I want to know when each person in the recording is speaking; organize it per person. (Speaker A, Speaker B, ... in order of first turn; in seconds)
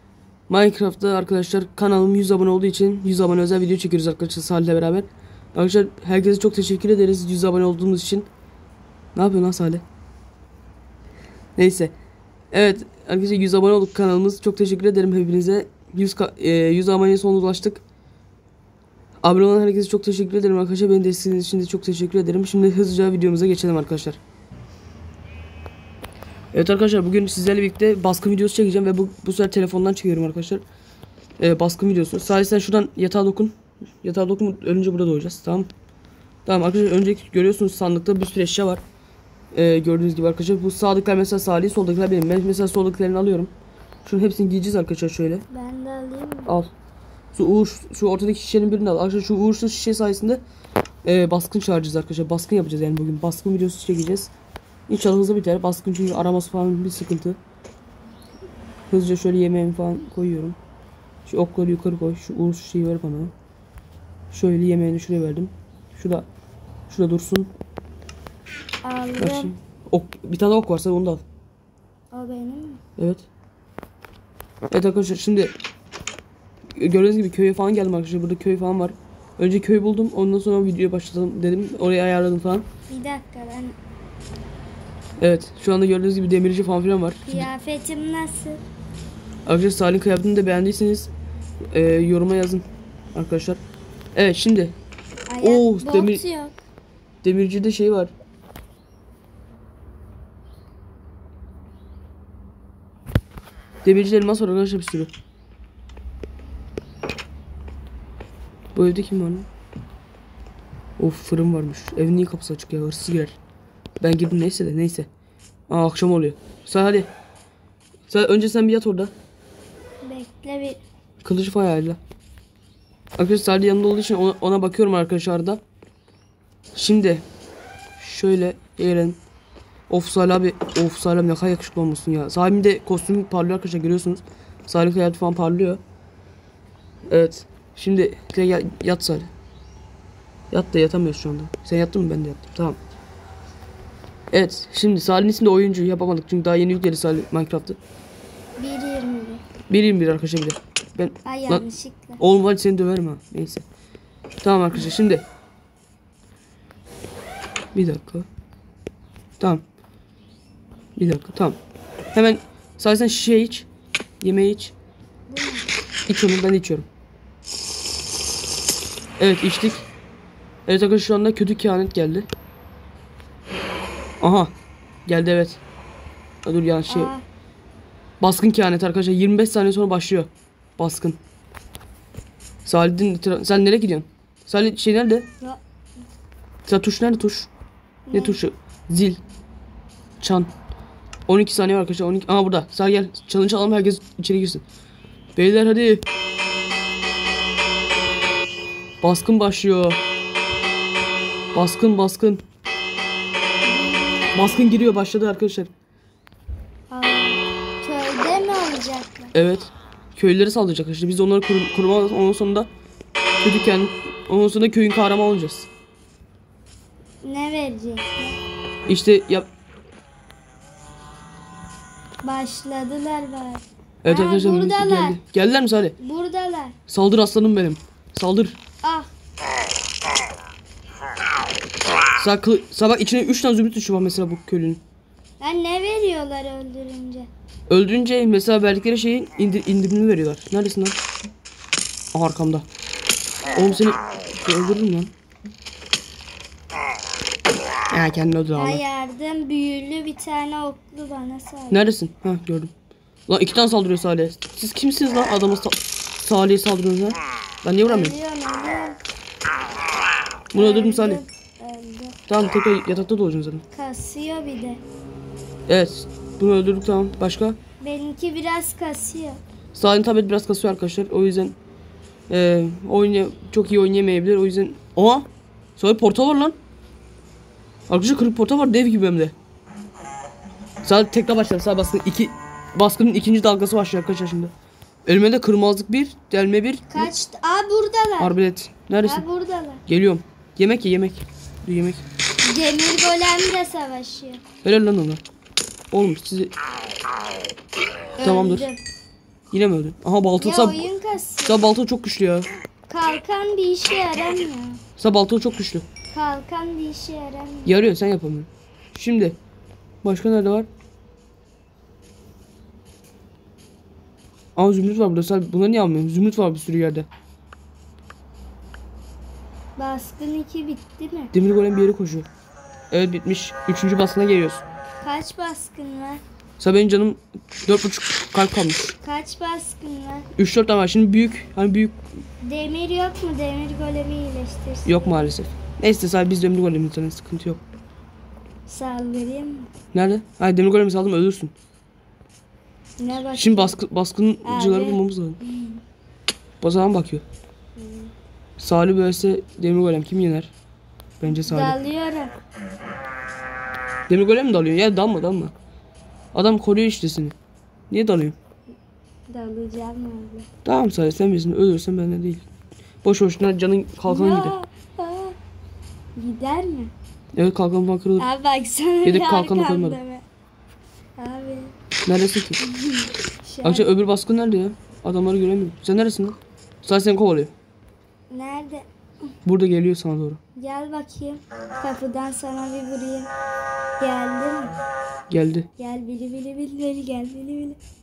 Speaker A: 0.5-8.3, 9.1-9.8, 11.6-11.9, 12.5-17.8, 19.2-24.2, 26.5-30.6, 31.4-35.7, 36.5-38.8, 39.5-43.5, 44.0-45.4, 47.3-50.4, 51.0-54.3, 54.9-57.4, 58.9-60.6, 61.2-63.3, 64.3-66.2, 66.9-67.5, 69.2-71.2, 73.0-73.2, 74.7-75.5, 76.8-82.6, 85.2-87.5, 89.5-91.1, 91.7-93.6, 94.1-94.7, 95.4-96.2, 97.2-98.1, 103.8-105.1, 108.7-109.5, 111.0-113.4, 114.0-115.1, 115.7-117.1, 118.1-119.1, 121.2-122.0, 123.2-125.6, 126.7-127.2, 128.0-129.2, 129.9-135.8, 137.1-139.3, 140.5-142.8, 144.3-147.8, 149.7-151.6, 152.2-153.6, 154.4-155.2, 157.7-158.3, 161.0-161.6, 162.1-163.7, 164.2-164.7, 166.1-166.8, 169.2-169.8, 170.7-172.3, 174.2-174.5, 175.1-175.6, 176.4-177.1, 178.2-181.2, 182.6-185.3, 186.7-187.5, 188.1-189.2, 190.2-190.5, 191.3-194.6, 195.3-196.1, 199.0-200.0, 201.5-202.4, 204.3-205.7, 209.3-212.7, 213.4-215.7, 218.9-219.5, 224.0-225.9, 226.9-228.6, 232.2-234.8, 237.7-241.0, 242.1-242.7, 243.5-245.1, 247.9-248.8, 251.7-252.7, 253.3-258.1, 260.5-261.2, 262.3-263.6, 265.7-267.6, 269.7-271.6, 272.3-276.6, 277.9-279.3, 280.8-284.5, 285.1-287.1, 288.2-289.2, 289.9-292.0, 294.6-295.2, 295.9-296.5, 298.2-298.7, 299.5-300.9, 301.4-302.5, 305.0-305.9, 307.6-309.4, 310.0-310.7, 314.6-317.1, 321.3-322.3, 322.9-324.6, 326.6-328.9, 330.4-332.0, 334.8-337.6, 339.9-341.5, 343.3-345.4, 346.6-347.2, 348.6-350.5, 351.2-351.8, 354.1-355.5, 356.3-357.3, 357.9-358.4, 360.6-362.4, 363.0-364.6, 367.3-368.3, 369.0-370.0, 372.1-372.6, 373.6-377.5, 379.4-380.4, 385.3-385.7
Speaker B: 45.5-46.5, 68.8-69.5, 72.1-72.8, 82.9-83.8, 87.2-88.6, 95.3-96.5, 120.0-120.8, 148.6-149.4, 151.2-152.2, 165.3-165.7, 176.9-177.2, 188.1-188.4, 203.6-204.7, 206.9-209.3, 217.2-218.4, 222.2-225.2, 226.0-226.8, 228.8-229.1, 235.4-237.3, 243.5-243.8, 248.5-251.8, 257.8-259.0, 260.5-262.2, 263.7-264.8, 267.8-269.4, 286.9-288.4, 289.0-289.8, 292.4-294.4, 298.2-298.8, 300.4-301.6, 302.9-304.8, 306.1-307.7, 319.8-321.3, 325.0-326.2, 329.0-330.3, 332.4-335.4, 338.7-339.7, 343.0-343.8, 344.4-345.8, 347.8-348.1, 351.2-352.4, 359.3-360.5, 364.1-365.4, 366.1-366.9, 368.2-370.2, 371.1-371.7, 372.6-373.9, 378.3-379.3, 380.6-383.3, 384.0-384.8, 385.8-387.8